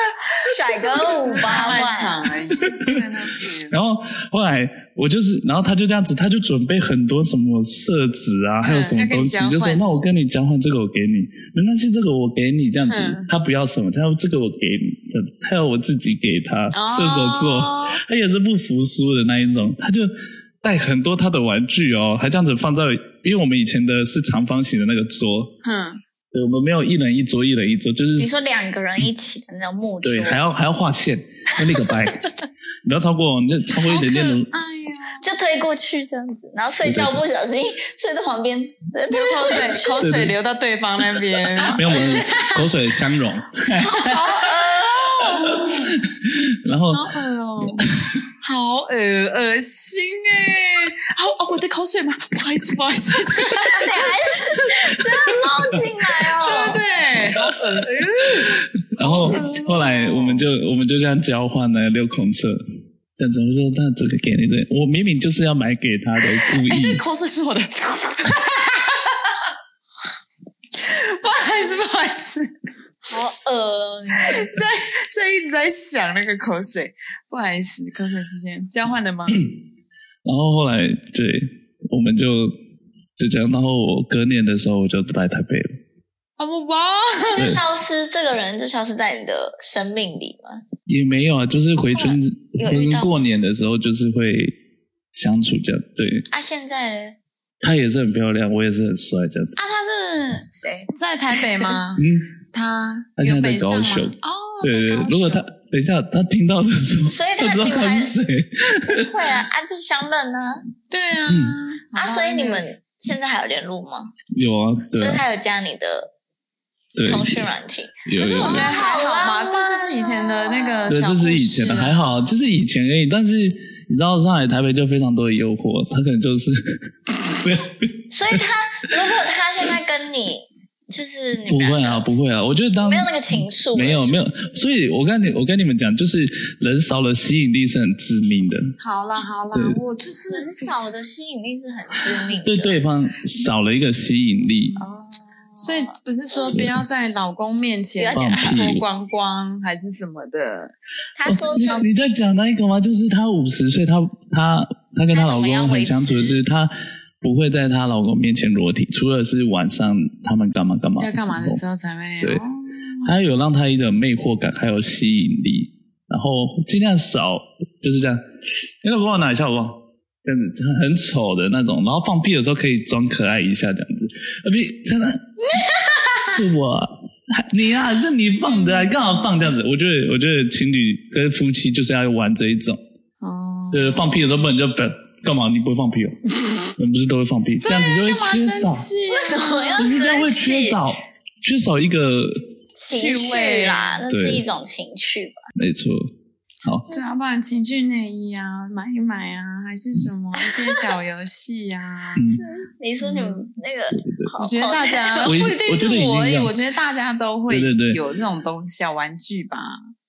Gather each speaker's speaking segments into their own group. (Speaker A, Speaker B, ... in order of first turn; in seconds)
Speaker A: 0.4-3.7, 8.6-10.1, 12.9-13.3, 16.7-18.0, 25.6-26.0, 33.8-35.3, 39.1-42.7, 43.8-45.9, 46.9-60.4, 66.3-69.4, 70.7-72.5, 74.2-79.5, 86.4-87.6, 99.6-105.5, 110.9-112.8, 118.2-122.3, 138.8-140.8, 145.6-150.8, 161.0-163.1, 175.7-176.2, 178.4-179.5, 183.2-184.1, 187.6-190.2, 192.8-194.0, 196.9-202.3, 203.0-203.4, 204.4-209.8
Speaker B: 0.4-2.4, 28.2-30.4, 31.6-32.1, 35.2-40.1, 44.1-45.5, 53.7-56.8, 73.1-74.6, 87.3-90.6, 91.9-93.1, 96.3-97.2, 107.1-108.2, 108.9-110.6, 111.9-114.1, 114.9-116.1, 117.0-121.0, 128.1-132.1, 132.8-134.2, 140.3-142.8, 144.8-145.9, 148.0-148.8, 151.2-151.9, 155.1-156.4, 189.1-190.8, 192.8-195.4, 202.3-205.4
Speaker C: 2.6-3.0, 3.7-25.6, 26.3-28.3, 30.0-32.2, 32.9-34.5, 36.8-37.2, 40.0-40.4, 41.6-44.3, 45.4-47.1, 47.9-48.2, 58.2-62.6, 63.2-67.0, 80.2-82.5, 83.2-85.8, 87.3-87.6, 90.9-94.6, 95.1-96.3, 97.6-99.6, 102.0-102.3, 103.2-109.2, 111.3-111.6, 114.3-115.2, 117.0-117.5, 118.1-118.8, 120.9-128.4, 131.5-138.7, 139.5-139.8, 142.4-144.8, 146.5-146.8, 148.1-148.8, 151.2-161.6, 163.0-168.2, 168.8-175.4, 176.1-182.8, 183.7-186.2, 186.7-188.9, 189.8-192.4, 194.1-194.4, 195.6-196.9, 202.2-202.4, 203.9-204.3, 205.2-206.5, 207.5-208.0